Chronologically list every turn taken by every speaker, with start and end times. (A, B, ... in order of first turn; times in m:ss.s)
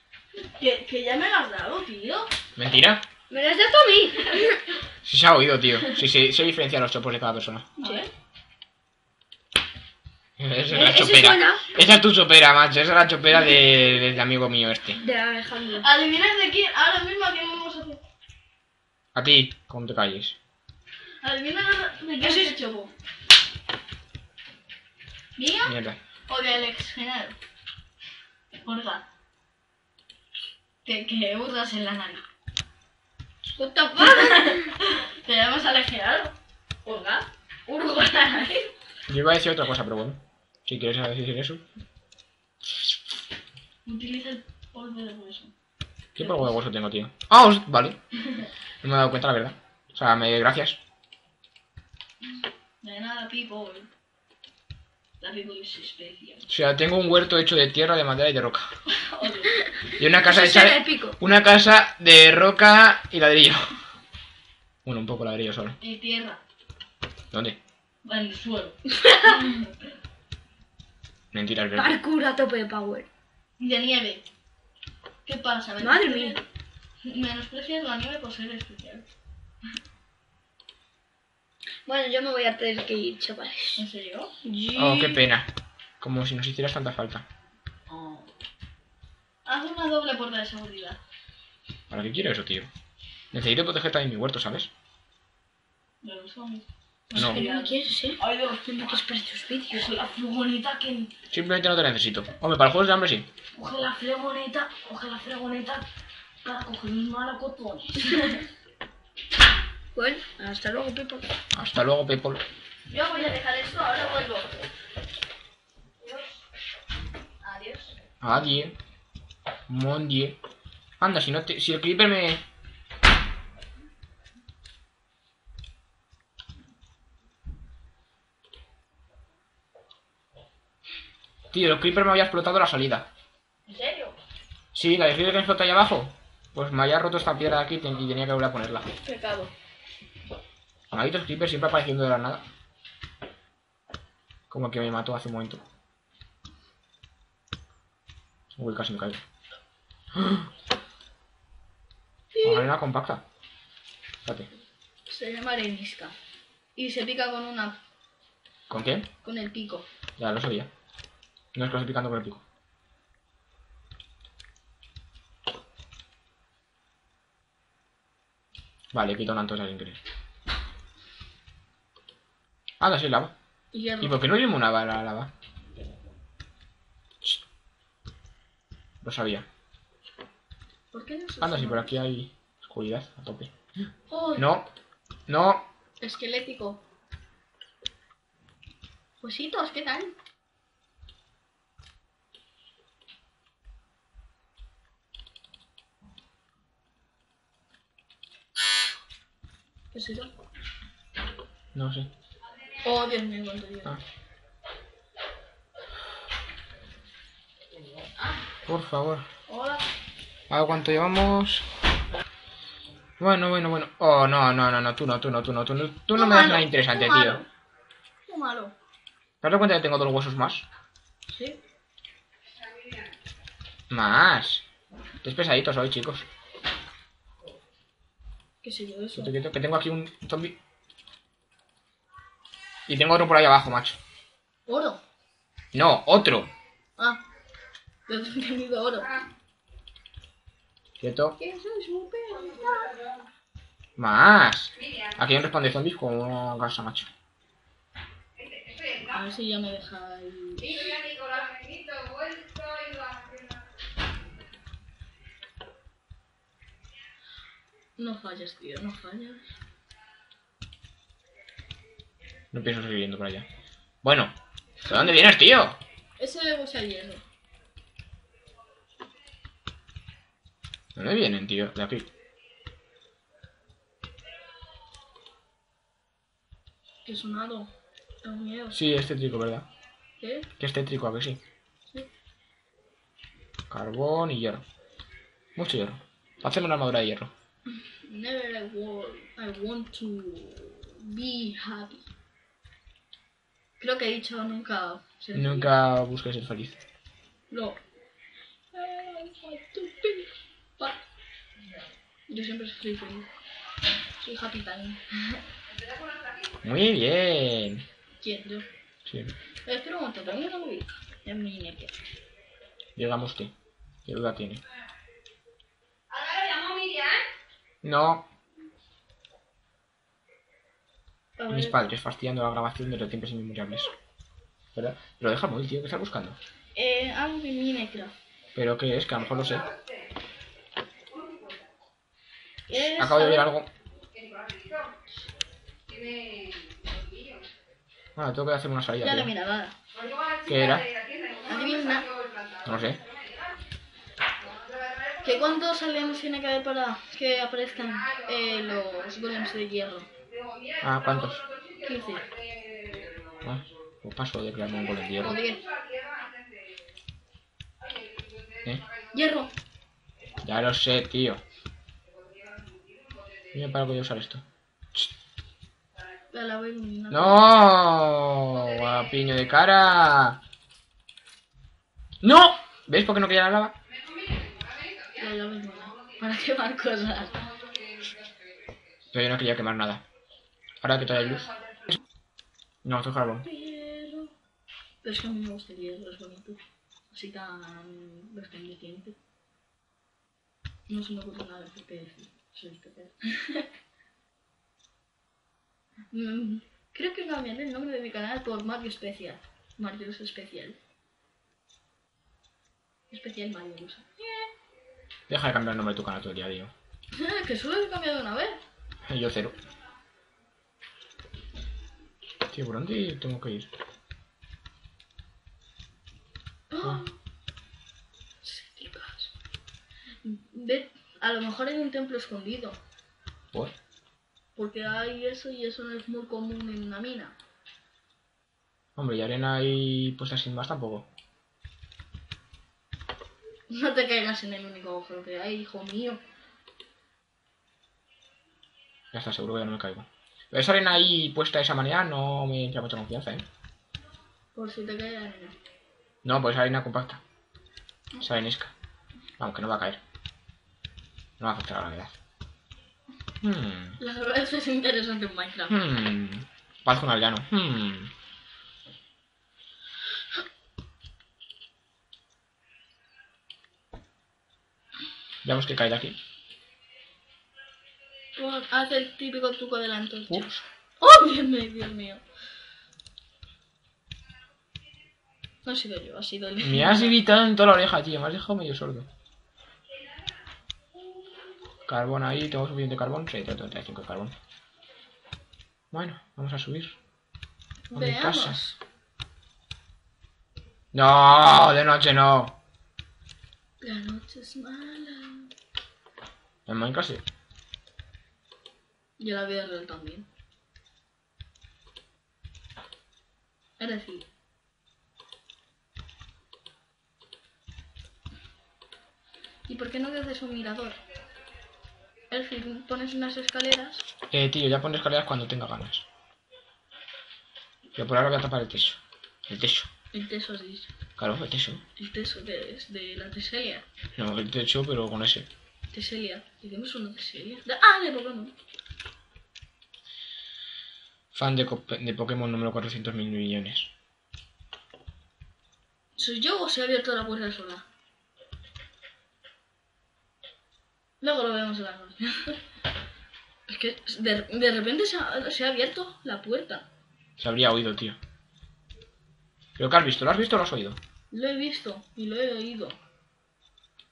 0:00.6-0:02.3 A
0:02.6-0:03.0 B
0:03.3-0:04.6 C
0:05.0-0:07.7 B
0:07.8-0:08.1 C
0:07.8-0:08.1 A
0:10.4-0:15.0 B
0:10.7-0:11.7 C
0:15.0-0:15.9 C
0:15.8-0:18.0 A
0:19.2-0:20.4 B
0:21.2-0:22.9 A
0:22.2-0:22.6 C
0:25.4-0:27.4 A
0:25.6-0:26.0 B
0:28.6-0:29.1 A
0:30.8-0:32.2 A
0:33.6-0:38.7 A
0:34.0-0:34.6 C
0:39.1-0:41.6 B
0:43.9-0:45.5 A
0:46.2-0:48.0 B
0:46.2-0:46.5 A
0:48.8-0:50.8 B
0:52.8-0:53.9 A
0:55.2-0:56.4 A
0:56.5-0:58.7 B
0:58.9-0:59.9 A
1:00.0-1:03.7 B
1:00.2-1:01.2 C
1:04.8-1:05.8 B
1:05.8-1:06.4 A
1:07.3-1:07.6 B
1:08.0-1:09.7 A
1:11.3-1:12.0 B
1:11.8-1:13.1 C
1:13.6-1:14.2 A
1:15.2-1:16.4 A
1:15.8-1:16.4 C
1:17.0-1:19.1 A
1:21.9-1:23.8 C
1:23.8-1:24.3 A
1:24.4-1:25.2 C
1:24.8-1:25.5 B
1:26.0-1:27.3 B
1:27.9-1:28.3 A
1:29.4-1:31.0 A
1:31.9-1:32.7 B
1:33.3-1:34.7 B
1:36.0-1:39.0 A
1:37.1-1:40.0 C
1:37.2-1:37.4 B
1:39.7-1:41.1 A
1:41.3-1:43.3 B
1:43.5-1:45.9 A
1:46.4-1:48.4 A
1:50.0-1:51.2 C
1:51.5-1:52.4 B
1:52.9-1:54.5 A
1:57.4-1:58.0 A
1:58.2-1:58.8 B
1:59.7-2:00.4 B
2:01.0-2:02.4 B
2:11.5-2:13.1 B
2:13.7-2:14.2 A
2:14.7-2:18.9 B
2:19.0-2:19.5 A
2:20.9-2:22.4 B
2:24.5-2:25.6 B
2:28.6-2:29.2 B
2:30.2-2:30.5 B
2:32.4-2:32.6 A
2:32.4-2:33.2 B
2:34.2-2:34.5 B
2:35.1-2:36.2 A
2:36.8-2:37.8 A
2:38.7-2:39.1 B
2:39.2-2:39.9 A
2:40.2-2:40.7 B
2:41.5-2:42.4 B
2:48.9-2:50.0 B
2:52.8-2:53.3 B
2:53.7-2:54.2 A
2:54.0-2:55.3 B
2:59.0-2:59.5 B
3:00.9-3:01.9 A
3:01.4-3:03.5 B
3:04.1-3:04.5 A
3:04.4-3:04.7 B
3:05.3-3:05.7 B
3:06.0-3:06.8 A
3:09.2-3:10.1 A
3:19.9-3:20.3 A
3:21.8-3:22.1 B
3:22.8-3:24.0 A
3:28.7-3:29.3 B
3:29.5-3:29.9 A
3:30.5-3:31.7 B
3:33.2-3:37.4 B
3:36.1-3:37.4 A
3:38.3-3:38.7 A
3:39.4-3:40.6 B
3:41.3-3:41.6 A
3:43.9-3:44.6 B
3:45.2-3:46.3 B
3:48.6-3:49.3 A
3:49.2-3:50.6 B
3:52.9-3:54.0 B
3:54.7-3:55.0 A
3:55.7-3:56.5 B
3:58.1-3:59.2 A
4:01.0-4:01.4 B
4:01.4-4:03.1 A
4:04.0-4:07.1 B
4:09.1-4:11.1 A
4:18.0-4:19.5 A
4:22.5-4:23.5 B
4:24.0-4:24.3 B
4:24.8-4:25.8 B
4:26.2-4:27.2 A
4:31.0-4:32.1 B
4:37.0-4:37.7 A
4:38.2-4:38.8 A
4:38.7-4:39.7 B
4:40.2-4:40.5 A
4:40.6-4:41.4 B
4:43.7-4:44.6 B
4:45.6-4:47.3 B
4:47.9-4:52.1 A
4:53.8-4:55.7 A
4:55.3-4:56.8 B
4:57.5-4:57.8 A
4:58.7-5:01.0 A
5:02.3-5:03.3 A
5:04.2-5:05.4 A
5:06.6-5:07.8 B
5:08.2-5:08.6 A
5:09.1-5:09.3 B
5:09.7-5:11.9 A
5:13.0-5:13.5 B
5:14.0-5:14.6 B
5:17.8-5:18.3 B
5:21.4-5:21.8 A
5:21.5-5:23.9 B
5:24.8-5:26.4 B
5:26.8-5:28.1 A
5:28.5-5:29.7 B
5:32.7-5:33.5 A
5:32.7-5:33.7 B
5:38.2-5:39.3 B
5:39.0-5:39.8 A
5:40.4-5:40.9 B
5:41.5-5:42.1 A
5:42.6-5:43.0 B
5:45.2-5:50.1 A
5:50.8-5:51.4 B
5:51.8-5:52.3 A
5:53.4-5:55.4 B
5:55.2-5:55.7 A
5:59.1-5:59.5 A
6:00.4-6:01.4 B
6:03.5-6:04.4 B
6:06.3-6:07.5 A
6:07.1-6:10.4 B
6:12.2-6:13.8 B
6:15.2-6:17.5 A
6:19.1-6:20.0 B
6:20.8-6:21.5 B
6:22.8-6:23.5 B
6:23.4-6:24.3 A
6:25.0-6:29.2 A
6:30.9-6:33.7 A
6:36.1-6:40.8 A
6:43.1-6:44.5 A
6:45.3-6:46.7 B
6:47.1-6:48.6 A
6:49.1-6:49.6 B
6:52.5-6:53.7 B
6:56.7-6:57.1 A
6:58.4-6:59.3 A
7:00.2-7:02.8 A
7:04.6-7:07.4 A
7:09.0-7:11.1 B
7:13.7-7:16.2 A
7:19.1-7:23.5 B
7:24.6-7:25.6 A
7:26.2-7:27.2 B
7:28.2-7:28.7 B
7:29.4-7:30.0 B
7:31.4-7:32.1 B
7:33.4-7:34.0 B
7:34.0-7:35.8 A
7:35.7-7:38.1 B
7:45.4-7:46.2 B
7:48.4-7:50.5 A
7:50.3-7:50.6 B
7:51.0-7:52.2 A
7:55.6-7:57.2 A
7:56.6-7:59.1 B
8:01.9-8:04.4 B
8:05.9-8:06.9 B
8:07.9-8:08.8 A
8:07.9-8:08.6 B
8:10.9-8:12.6 B
8:13.8-8:15.5 A
8:16.7-8:17.2 B
8:19.2-8:20.3 A
8:23.8-8:24.3 A
8:29.7-8:31.0 A
8:32.3-8:34.0 A
8:34.3-8:36.1 B
8:38.0-8:39.9 B
8:40.1-8:40.9 A
8:41.2-8:41.8 B
8:42.0-8:43.8 A
8:44.2-8:45.5 B
8:45.9-8:48.5 A
8:51.3-8:53.9 B
8:56.2-8:57.8 A
9:01.2-9:02.6 A
9:03.7-9:06.9 A
9:07.4-9:08.2 B
9:09.8-9:11.0 B
9:11.3-9:13.0 A